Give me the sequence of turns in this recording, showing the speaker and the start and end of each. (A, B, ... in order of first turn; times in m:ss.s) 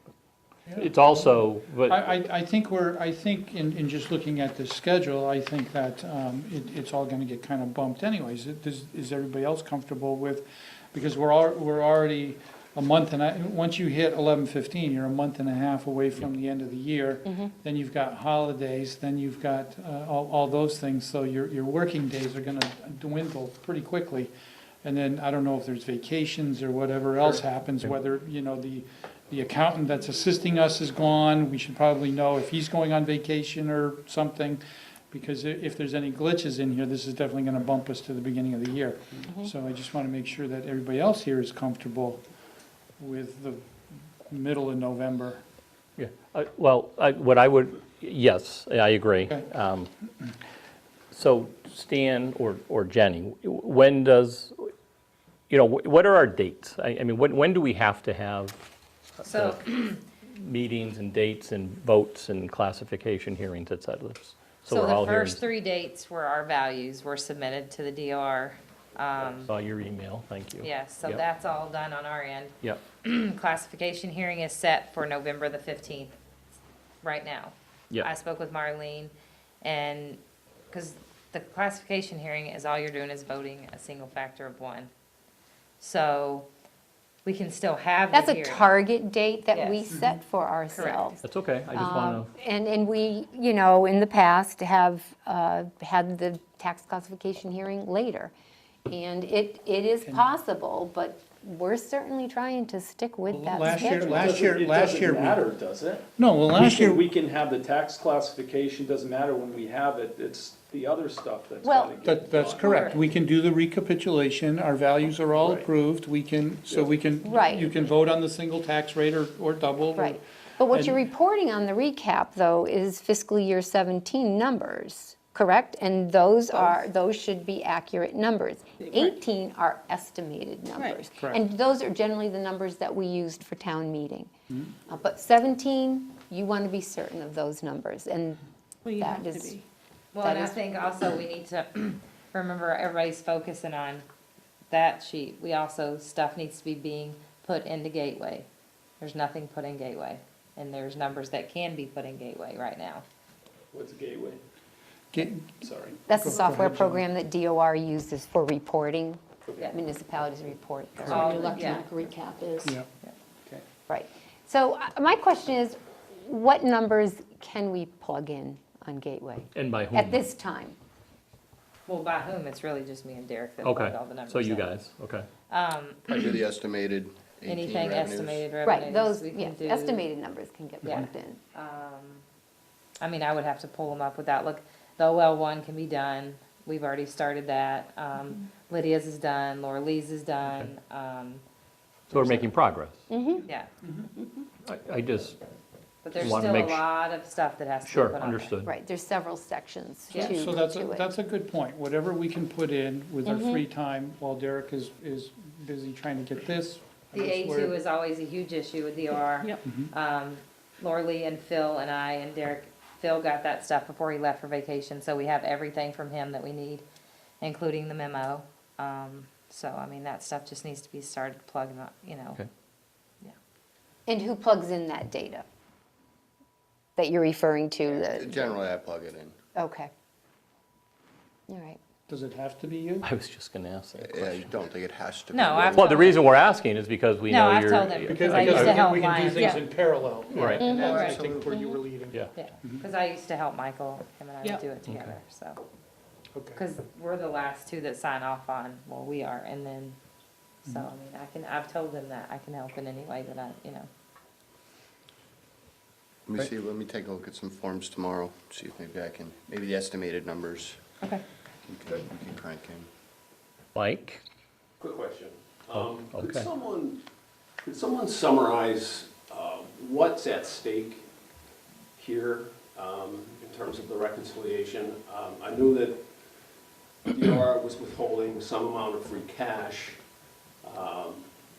0:00.7-0:24.3 A
0:00.8-0:02.0 B
0:17.3-0:17.5 C
0:24.8-0:42.2 A
0:43.0-0:43.7 A
0:44.2-0:45.4 A
0:46.0-0:49.9 B
0:51.1-0:54.7 B
0:55.5-0:58.6 B
0:59.2-0:59.6 B
0:59.2-1:00.0 D
1:00.3-1:05.4 B
1:04.6-1:09.5 D
1:09.4-1:11.2 B
1:10.6-1:16.1 D
1:17.0-1:19.1 D
1:19.6-1:20.2 D
1:20.7-1:24.9 D
1:25.8-1:26.5 D
1:27.2-1:28.7 D
1:28.1-1:31.2 C
1:29.5-1:29.8 D
1:29.9-1:30.2 A
1:30.7-1:31.2 D
1:31.2-1:32.3 B
1:31.7-1:38.3 C
1:38.8-1:44.5 C
1:43.3-1:45.5 A
1:44.0-1:52.6 E
1:46.2-1:47.1 A
1:51.6-1:51.9 C
1:52.0-2:01.0 A
1:52.4-1:53.0 D
1:57.2-1:57.7 C
2:00.0-2:14.3 C
2:08.8-2:09.1 F
2:14.8-2:18.4 C
2:18.8-2:19.6 F
2:19.0-2:19.6 C
2:20.1-2:24.0 D
2:20.2-2:20.6 C
2:24.7-2:28.5 D
2:29.0-2:33.0 D
2:33.7-2:34.4 E
2:35.1-2:37.0 A
2:35.6-2:36.0 E
2:36.1-2:41.7 C
2:41.0-2:41.9 D
2:41.2-2:42.7 F
2:41.8-2:42.2 E
2:43.9-2:50.8 C
2:49.5-2:50.2 B
2:51.9-2:54.7 D
2:53.6-2:55.3 B
2:55.5-2:56.4 D
2:56.1-2:58.4 G
2:57.5-3:00.1 D
2:58.6-3:01.4 C
3:00.8-3:02.2 D
3:03.0-3:11.4 D
3:12.1-3:13.0 B
3:12.1-3:12.5 D
3:13.1-3:13.4 C
3:14.6-3:15.4 B
3:16.0-3:18.5 D
3:16.2-3:16.8 B
3:17.8-3:18.7 B
3:18.6-3:21.1 C
3:20.1-3:20.4 D
3:20.2-3:27.7 A
3:23.2-3:23.6 C
3:27.1-3:36.8 D
3:37.4-3:42.4 D
3:44.1-3:45.4 C
3:47.0-3:48.5 C
3:47.8-3:49.4 G
3:49.5-3:49.9 C
3:51.5-3:51.8 C
3:52.1-3:53.1 A
3:53.0-3:54.4 B
3:54.0-3:56.3 G
3:55.3-3:56.3 D
3:55.8-3:58.8 B
3:57.3-3:59.6 D
3:58.1-4:02.8 A
3:59.4-3:59.6 F
4:00.3-4:00.7 B
4:00.6-4:00.9 C
4:00.6-4:01.8 G
4:00.7-4:01.2 D
4:02.3-4:05.6 D
4:04.9-4:05.1 B
4:06.3-4:06.6 A
4:06.5-4:10.0 D
4:10.6-4:13.9 D
4:16.3-4:20.8 G
4:21.7-4:22.9 G
4:23.7-4:24.2 B
4:24.8-4:27.0 H
4:26.1-4:26.4 B
4:27.6-4:31.0 H
4:32.0-4:36.0 H
4:37.1-4:40.0 H
4:40.6-4:41.3 H